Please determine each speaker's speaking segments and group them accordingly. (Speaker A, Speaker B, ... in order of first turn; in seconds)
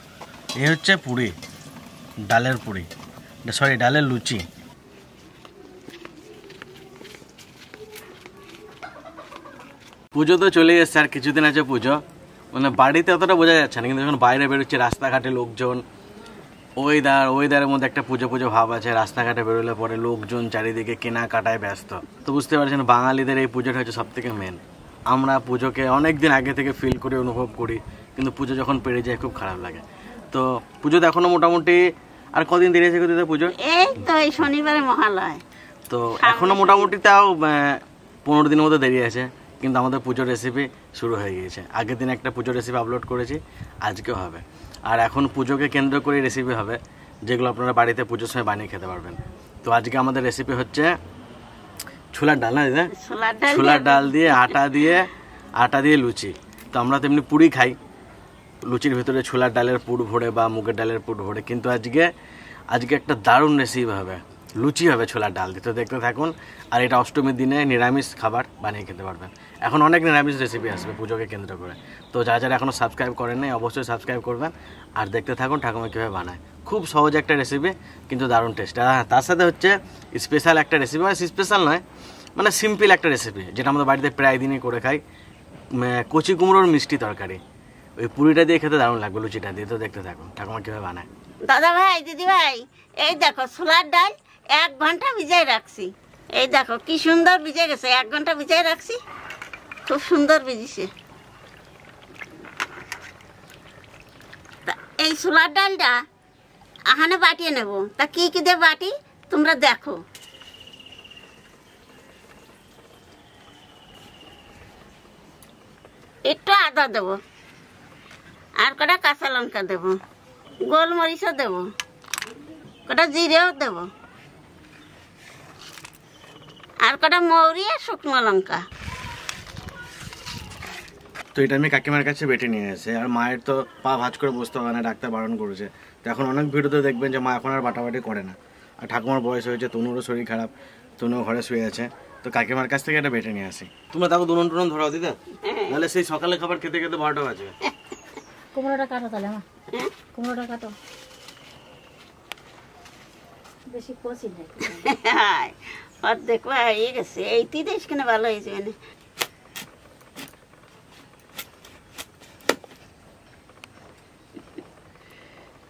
Speaker A: 0.6-1.3, 2.2-2.9, 3.5-4.4, 10.1-12.0, 12.5-15.8, 16.8-31.8, 32.3-33.5, 35.9-50.9, 52.1-52.9, 53.5-57.8, 58.6-62.1, 62.7-81.8, 82.4-85.0, 85.8-87.4, 88.0-91.1, 131.3-145.2, 145.7-147.5
Speaker B: 33.5-35.4, 36.2-36.9, 52.9-54.6, 91.5-99.0, 99.9-100.9, 104.7-106.0, 106.9-110.0, 116.3-117.2, 118.6-120.0, 120.7-121.6, 122.9-123.8, 126.8-128.6, 145.4-145.7, 154.7-158.7
Speaker C: 148.5-149.4, 150.1-150.7, 153.7-154.9